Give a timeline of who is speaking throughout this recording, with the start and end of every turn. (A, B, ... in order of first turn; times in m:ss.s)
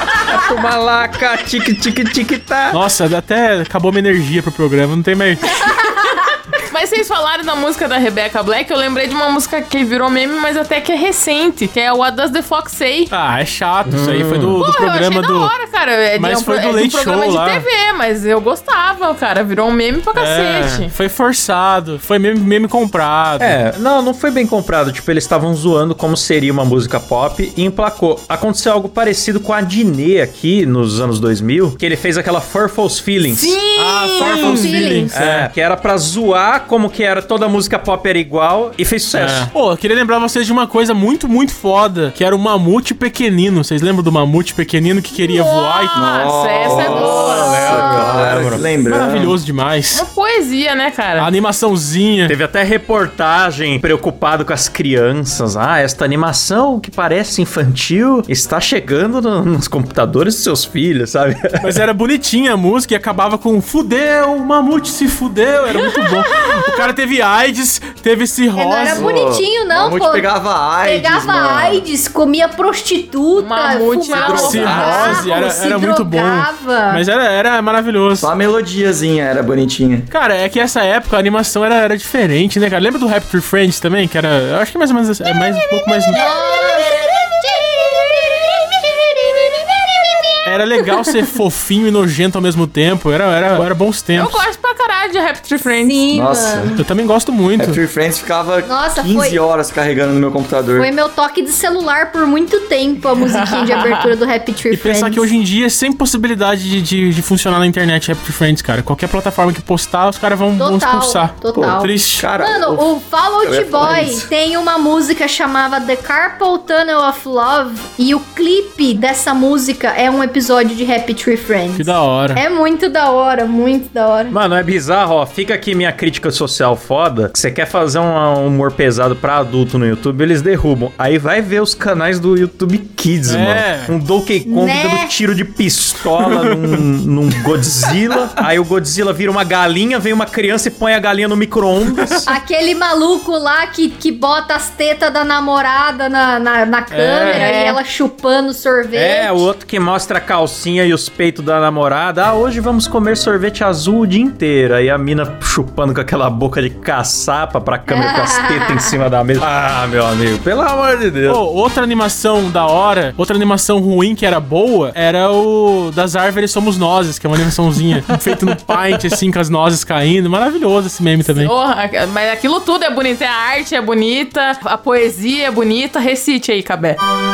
0:00.2-0:02.8 A
0:02.7-0:05.7 B
0:05.6-0:13.1 C
0:13.1-0:15.5 B
0:13.9-0:14.6 A
0:14.6-0:20.9 C
0:16.2-0:17.6 B
0:20.2-0:23.6 B
0:23.4-0:33.6 A
0:33.3-0:34.8 C
0:33.7-0:35.5 B
0:34.2-0:35.1 D
0:35.1-0:39.5 A
0:39.2-0:46.0 B
0:45.2-0:47.9 C
0:46.0-0:49.4 E
0:46.7-0:48.6 A
0:48.9-0:50.0 B
0:49.9-0:51.3 C
0:51.2-0:52.4 B
0:52.3-1:01.8 A
1:01.6-1:09.1 B
1:08.6-1:10.3 D
1:08.8-1:11.9 E
1:10.8-1:17.0 D
1:13.4-1:15.2 C
1:14.1-1:15.3 E
1:14.3-1:18.3 B
1:18.2-1:20.1 E
1:20.1-1:26.2 B
1:26.1-1:27.1 C
1:26.1-1:30.5 D
1:30.4-1:34.5 B
1:34.2-1:36.1 C
1:35.8-1:36.8 D
1:36.1-1:36.8 E
1:36.8-1:37.8 B
1:37.6-1:40.9 E
1:38.6-1:39.4 D
1:40.8-1:45.3 D
1:43.2-1:44.1 C
1:44.7-1:52.2 B
1:50.6-2:04.4 D
1:51.6-1:52.9 E
1:53.4-1:54.3 E
2:01.8-2:02.4 B
2:04.3-2:22.3 A
2:13.3-2:14.0 B
2:14.5-2:15.1 D
2:22.3-2:29.5 D
2:26.9-2:27.5 B
2:27.3-2:27.8 C
2:28.9-2:41.4 A
2:37.9-2:38.9 D
2:41.3-2:51.5 B
2:51.3-2:57.0 C